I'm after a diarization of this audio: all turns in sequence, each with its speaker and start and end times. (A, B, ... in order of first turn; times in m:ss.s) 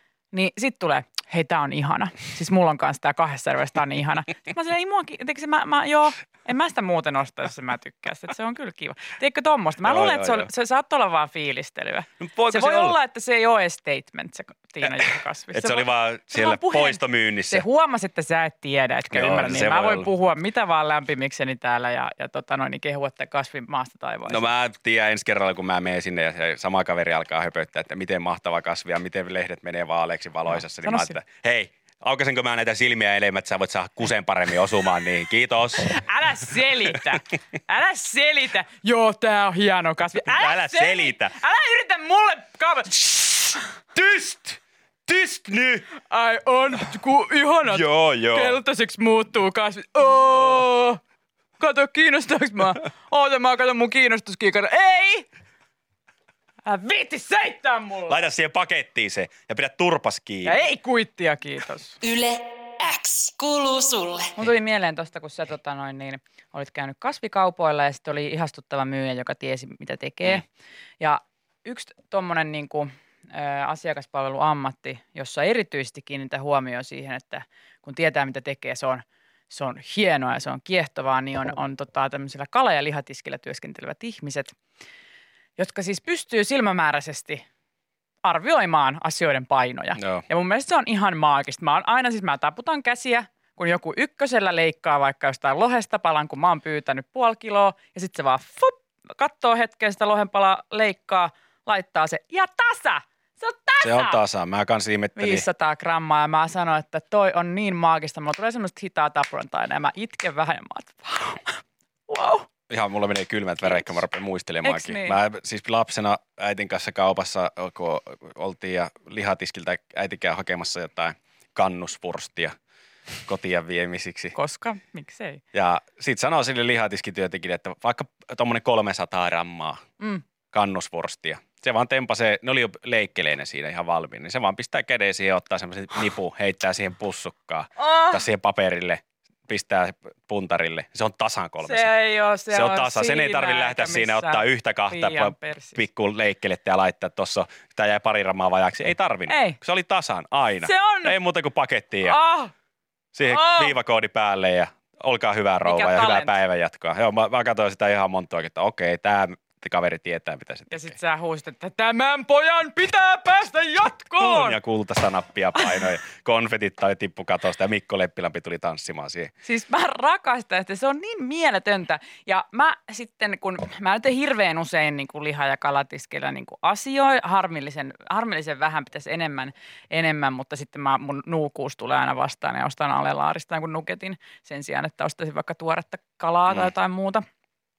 0:00.3-0:24.5 A
0:09.8-0:10.5 B
0:12.2-0:13.0 B
0:14.8-0:17.6 B
0:19.1-0:20.1 B
0:24.3-0:36.0 B
0:30.5-0:31.2 A
0:35.8-0:43.6 A
0:36.8-0:37.1 B
0:40.2-0:41.3 B
0:43.9-0:45.8 B
0:46.0-0:51.0 A
0:47.7-0:48.6 B
0:51.6-0:55.3 A
0:56.6-0:58.2 A
0:58.1-1:00.6 B
1:00.4-1:02.0 A
1:02.0-1:04.3 C
1:04.4-1:10.4 A
1:11.0-1:24.5 A
1:25.6-1:27.4 A
1:28.2-1:44.2 A
1:30.0-1:30.2 B
1:43.8-1:45.4 B
1:45.2-1:52.5 A
1:52.7-2:02.5 B
1:54.6-1:55.2 A
2:03.2-2:04.3 B
2:04.3-2:05.4 A
2:05.5-2:09.8 B
2:10.5-2:21.9 B
2:17.8-2:18.2 A
2:21.6-2:25.8 A
2:22.5-2:32.2 B
2:29.3-2:29.6 A
2:30.6-2:31.2 A
2:32.0-2:32.5 A
2:33.1-2:41.0 B
2:33.2-2:33.7 A
2:35.6-2:36.4 A
2:40.7-2:44.6 A
2:44.2-2:49.3 B
2:49.4-3:07.2 A